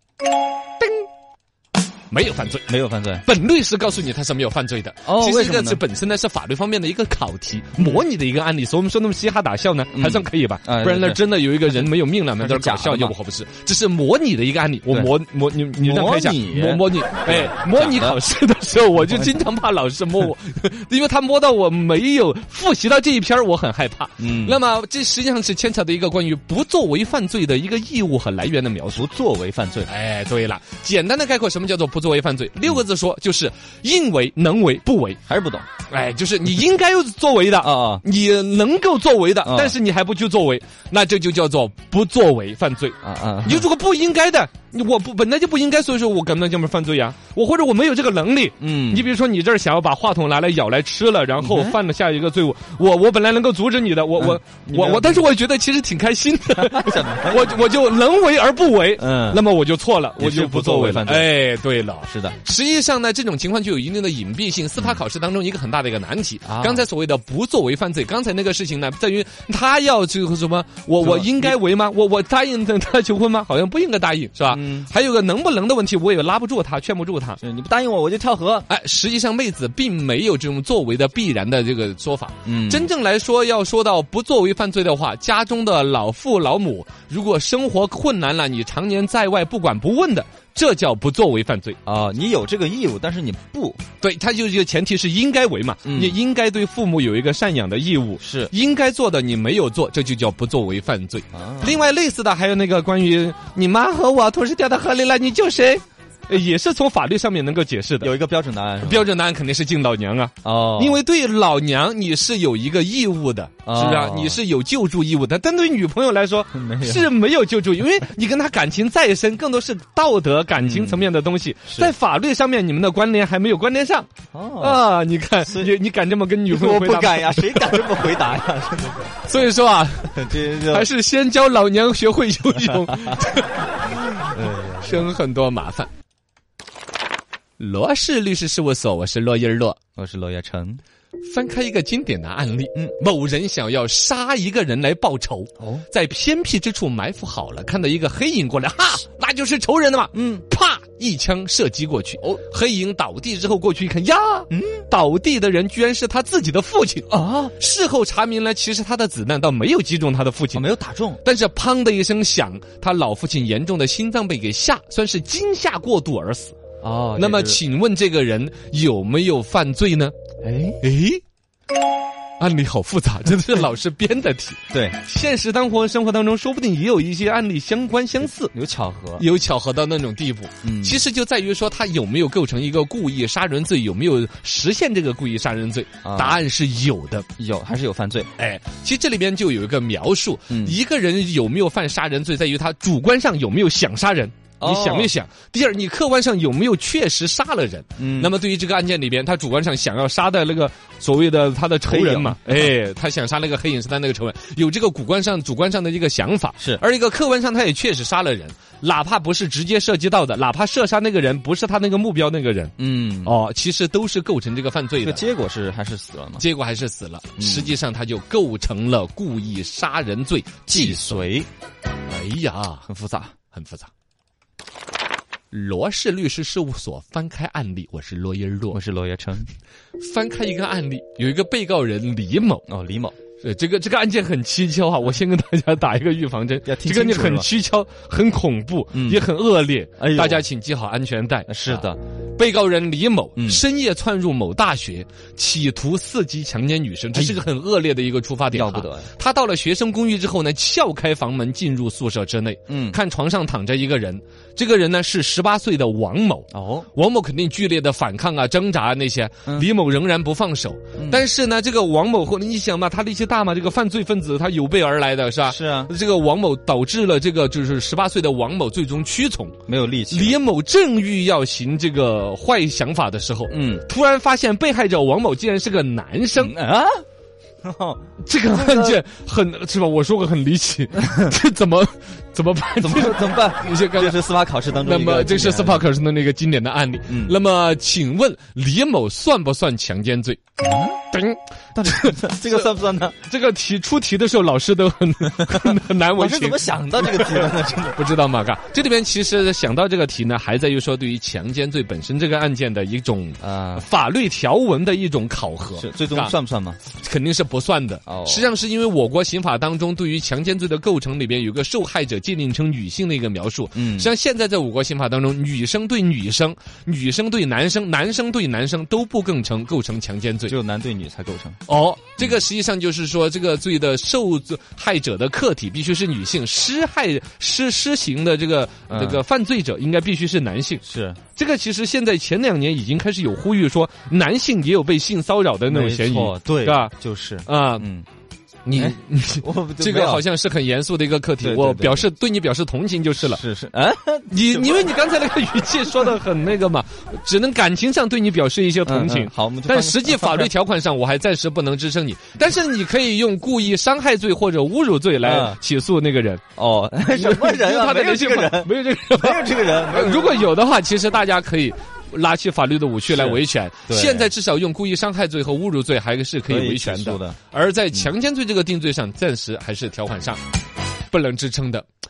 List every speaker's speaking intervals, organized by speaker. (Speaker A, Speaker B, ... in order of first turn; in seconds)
Speaker A: 2.1-2.7, 3.2-29.1, 29.9-35.2, 35.9-77.4, 78.7-91.8, 94.0-108.1, 108.8-127.9, 129.2-134.3, 134.8-135.9, 137.6-139.8, 141.2-160.7, 161.2-166.6, 167.2-170.2, 170.8-171.2, 172.4-178.5, 179.2-187.3, 188.4-215.2, 216.4-221.3, 222.1-222.9, 223.5-223.9, 225.5-228.8, 230.0-232.6, 233.4-269.6, 270.1-276.6, 278.2-284.3, 284.8-290.4, 291.1-306.3, 306.9-320.6, 321.7-330.8, 331.4-336.9, 337.5-337.9, 338.6-343.4, 344.3-356.4, 357.1-370.4, 371.1-371.9
Speaker B: 2.7-3.2, 5.0-5.8, 7.8-8.0, 9.9-11.8, 12.4-13.2, 15.8-18.2, 24.2-24.6, 28.9-29.9, 35.3-35.7, 37.6-38.0, 39.4-39.8, 43.0-43.7, 48.6-49.1, 51.4-51.8, 54.2-55.2, 56.5-57.6, 59.0-59.4, 60.2-61.4, 62.1-62.4, 66.5-66.9, 71.0-71.6, 74.5-74.9, 77.4-78.7, 82.5-82.9, 91.8-93.8, 95.8-96.2, 98.2-98.5, 101.3-101.8, 108.0-109.1, 110.4-111.0, 113.7-114.4, 116.5-117.1, 120.6-121.1, 121.7-121.9, 124.3-124.8, 125.4-125.7, 126.5-129.1, 130.1-130.9, 132.8-133.2, 134.3-135.1, 140.0-140.8, 145.6-145.9, 150.1-150.4, 154.5-154.8, 157.1-157.5, 160.5-161.2, 166.8-167.6, 170.4-170.8, 174.7-175.0, 178.5-179.2, 180.6-181.0, 186.0-186.4, 187.4-188.3, 190.5-190.8, 194.6-195.1, 198.0-198.3, 201.9-202.7, 212.8-213.3, 215.0-216.4, 217.4-217.7, 220.7-221.5, 222.9-223.3, 228.7-229.5, 232.7-233.2, 236.7-237.5, 238.9-239.2, 240.0-240.4, 241.5-242.0, 243.4-243.6, 247.1-247.4, 248.5-249.1, 252.7-253.0, 256.5-256.9, 261.0-261.2, 265.5-265.9, 269.7-270.4, 273.5-273.9, 276.4-277.0, 277.6-279.0, 282.8-285.9, 287.1-287.4, 290.6-291.0, 291.8-293.1, 295.5-298.0, 303.4-303.9, 305.8-306.8, 308.1-308.5, 313.8-314.1, 320.5-321.6, 328.9-329.2, 330.8-331.2, 335.7-338.1, 338.8-340.2, 341.4-342.1, 343.3-344.9, 348.9-350.5, 355.2-355.6, 356.6-360.5, 363.1-364.3, 366.5-367.4